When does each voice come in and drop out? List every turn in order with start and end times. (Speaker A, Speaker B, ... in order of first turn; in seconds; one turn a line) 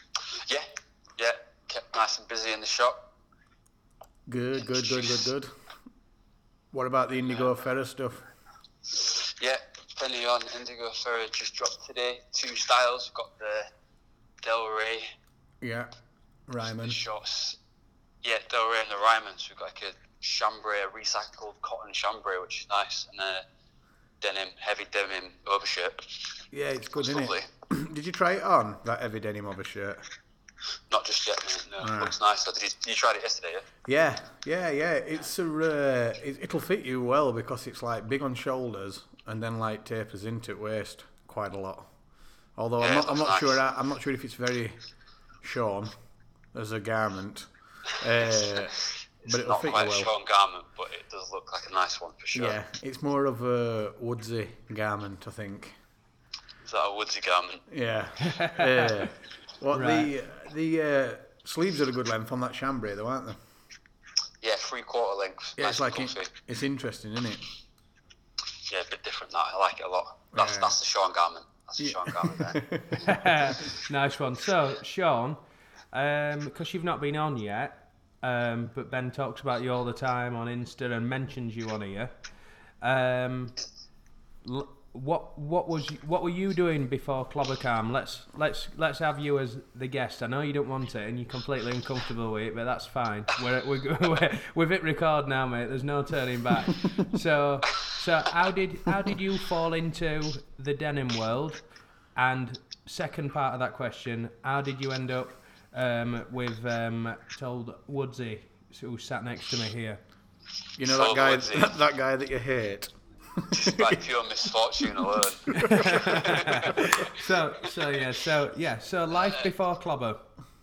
Speaker A: 1.2-3.0
Speaker B: 4.3-5.5
Speaker B: 6.7-8.2
Speaker A: 8.9-13.7
Speaker A: 14.4-15.1
Speaker B: 15.6-15.9
Speaker B: 16.5-17.0
Speaker A: 16.8-17.6
Speaker A: 18.2-23.4
Speaker A: 24.2-26.4
Speaker B: 26.5-30.0
Speaker A: 27.0-27.4
Speaker A: 30.9-33.7
Speaker B: 31.8-32.1
Speaker B: 33.9-41.9
Speaker B: 42.5-44.8
Speaker A: 42.8-43.6
Speaker B: 45.4-45.9
Speaker B: 46.5-50.1
Speaker A: 49.2-52.6
Speaker B: 52.3-55.7
Speaker A: 56.6-57.6
Speaker B: 57.7-63.4
Speaker C: 58.2-59.0
Speaker C: 59.7-60.1
Speaker A: 64.4-66.3
Speaker B: 65.6-67.4
Speaker A: 68.7-73.1
Speaker B: 70.3-70.8
Speaker B: 71.8-73.6
Speaker C: 73.0-75.4
Speaker C: 75.9-82.1
Speaker C: 82.8-83.5
Speaker C: 84.4-101.6
Speaker C: 102.2-110.0
Speaker B: 110.8-114.0
Speaker A: 110.8-111.8
Speaker A: 113.5-117.1
Speaker B: 114.8-116.9
Speaker C: 115.6-120.3